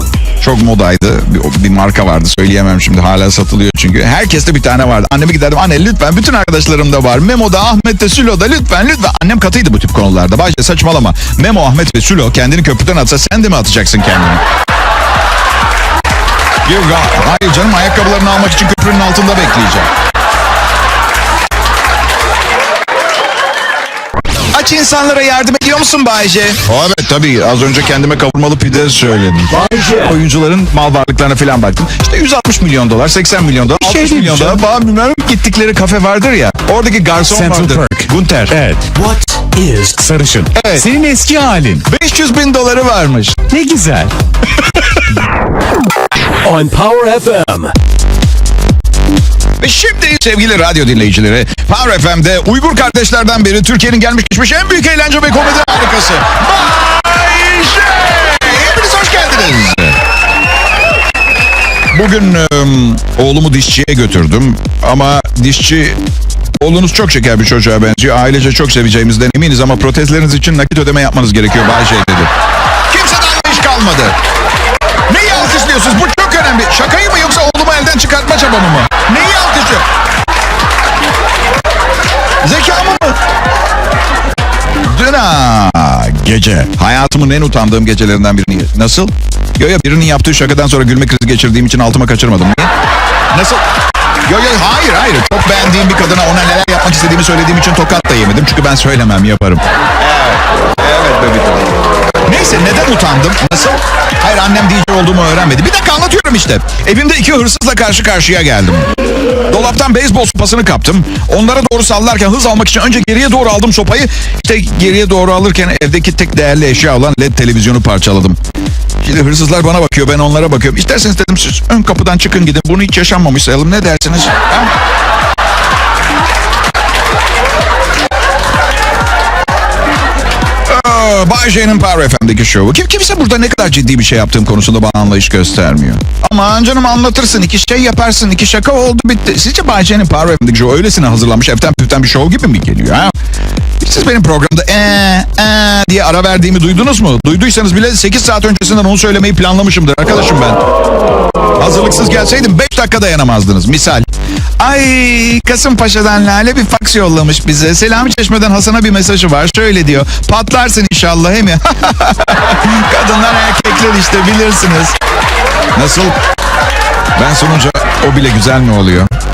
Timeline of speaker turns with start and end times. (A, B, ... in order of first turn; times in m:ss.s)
0:00.4-0:14.4 A
0:16.6-0:19.9 A
0:24.5-0:38.6 A
0:29.5-0:30.1 B
0:33.8-0:34.6 C
0:37.2-0:41.8 C
0:39.0-0:40.0 B
0:40.5-0:40.9 A
0:41.8-0:43.5 A
0:43.5-0:44.1 C
0:46.4-0:47.7 B
0:49.6-1:00.0 A
1:01.9-1:06.0 A
1:06.6-1:12.3 A
1:12.9-1:14.2 A
1:15.1-1:19.8 A
1:22.4-1:23.2 A
1:24.8-1:32.7 A
1:33.3-1:33.6 A
1:34.2-1:41.7 A
1:42.2-1:48.9 A
1:49.5-1:58.4 A
1:59.0-2:04.7 A
2:10.7-2:23.1 A
2:23.8-2:30.6 A
2:31.6-2:34.0 A
2:34.6-2:45.0 A
2:45.7-2:46.2 A
2:47.2-2:49.1 A